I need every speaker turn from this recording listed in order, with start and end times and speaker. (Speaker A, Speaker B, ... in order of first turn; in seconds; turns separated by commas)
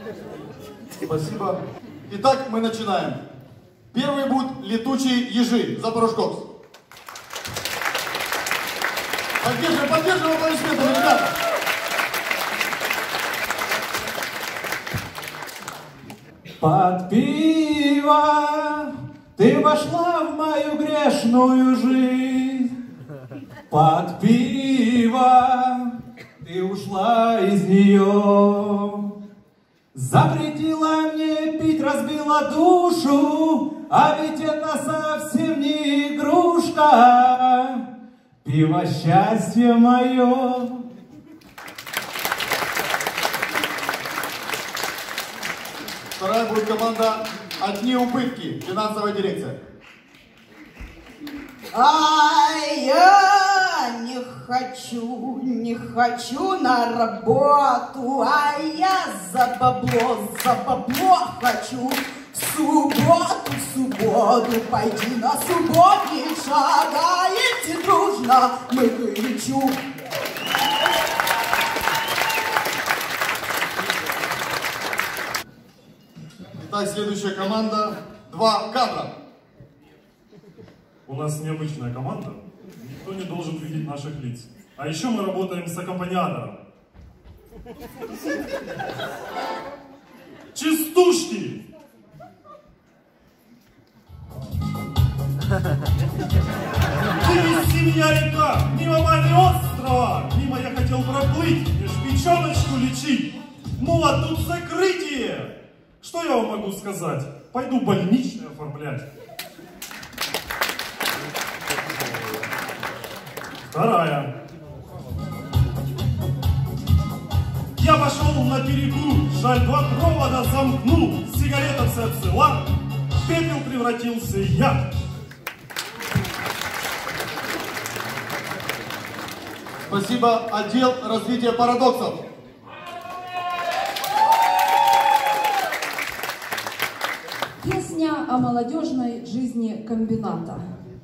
Speaker A: 1.0-3.2, Speaker A: 3.9-6.4, Speaker A: 9.4-11.3, Speaker B: 16.6-22.7, Speaker B: 23.7-29.1, Speaker B: 29.9-37.8, Speaker B: 38.4-40.8, Speaker A: 46.2-49.6, Speaker C: 51.7-69.8, Speaker A: 76.6-79.1, Speaker D: 81.0-86.6, Speaker D: 90.5-91.6, Speaker D: 97.2-109.0, Speaker D: 113.7-114.3, Speaker D: 117.8-122.6, Speaker D: 123.2-124.8, Speaker A: 129.9-132.2, Speaker E: 137.6-140.6